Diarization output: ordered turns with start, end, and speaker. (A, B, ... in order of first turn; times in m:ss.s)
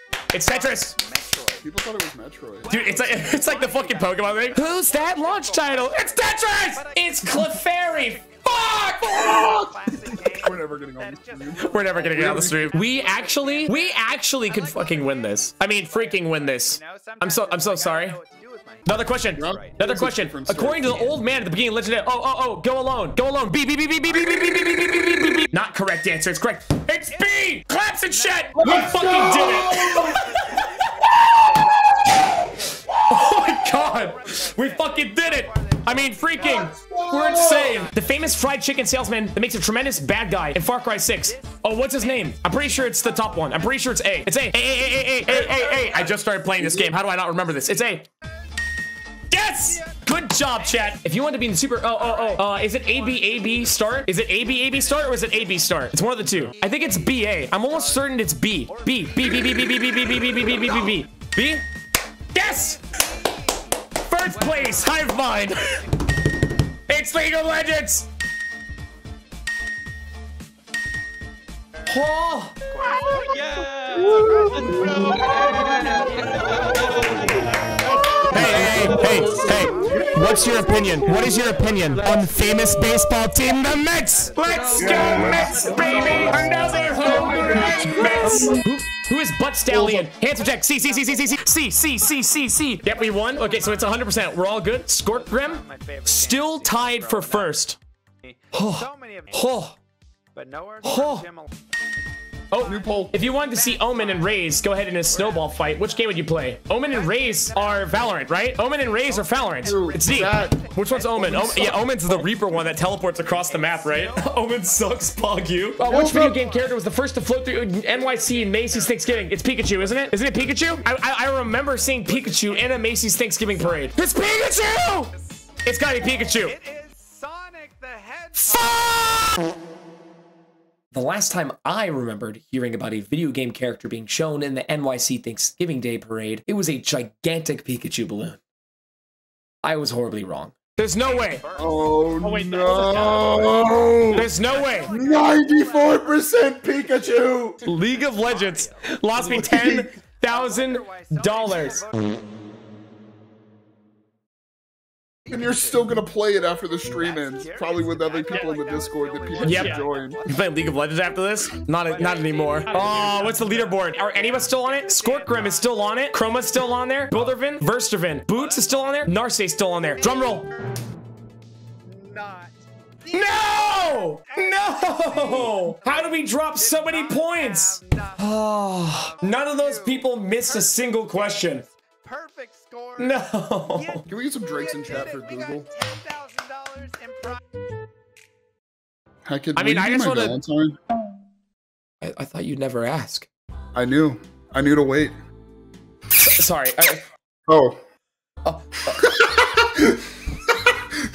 0:00.3-0:01.0 A
0:00.4-0:01.7 B
0:01.6-0:02.7 C
0:02.6-0:20.0 B
0:02.7-0:09.6 A
0:09.1-0:12.8 C
0:11.6-0:18.2 A
0:18.8-0:30.6 A
0:19.4-0:21.1 C
0:20.7-0:21.2 B
0:24.1-0:25.0 B
0:27.1-0:38.6 B
0:28.6-0:30.2 C
0:33.1-0:48.0 A
0:36.4-0:37.8 C
0:40.9-0:44.0 B
0:44.8-0:46.8 B
0:46.6-0:46.9 C
0:49.3-1:01.6 A
0:49.5-1:00.9 B
1:02.3-1:02.8 A
1:02.4-1:05.6 B
1:04.0-1:05.8 A
1:06.9-1:08.1 A
1:11.9-1:12.6 A
1:12.7-1:22.2 B
1:14.0-1:15.8 C
1:16.6-1:17.3 C
1:18.2-1:20.4 C
1:18.2-1:37.8 A
1:24.1-1:28.4 B
1:24.8-1:26.3 C
1:27.0-1:28.6 C
1:29.7-1:32.1 B
1:32.8-1:37.6 B
1:38.2-1:39.5 B
1:38.5-1:39.8 A
1:40.3-1:41.7 B
1:40.8-1:41.2 A
1:42.5-2:05.1 A
1:42.5-1:56.9 B
1:42.6-1:43.2 C
1:49.6-1:50.6 C
1:51.2-1:52.0 C
1:55.9-1:56.4 C
1:57.5-2:05.5 B
2:05.6-2:06.6 A
2:06.3-2:09.2 B
2:08.4-2:09.5 A
2:10.9-2:18.4 A
2:19.6-2:21.4 A
2:21.0-2:26.1 B
2:21.6-2:24.3 C
2:22.2-2:23.2 A
2:24.1-2:24.9 A
2:24.9-2:27.6 C
2:27.6-2:29.0 B
2:27.6-2:31.9 A
2:29.2-2:29.9 C
2:30.3-2:32.2 B
2:35.3-2:35.9 B
2:35.3-2:40.2 C
2:37.0-2:40.8 B
2:39.4-2:50.5 A
2:41.8-2:46.0 B
2:48.4-2:49.0 B
2:49.8-2:50.8 B
2:51.9-3:07.4 B
2:53.1-3:01.6 A
3:03.0-3:04.0 A
3:04.1-3:05.7 C
3:09.2-3:10.8 C
3:09.6-3:10.4 A
3:12.0-3:13.3 A
3:13.8-3:15.1 C
3:16.2-3:17.0 A
3:17.5-3:17.8 C
3:18.4-3:19.2 A
3:19.0-3:20.1 C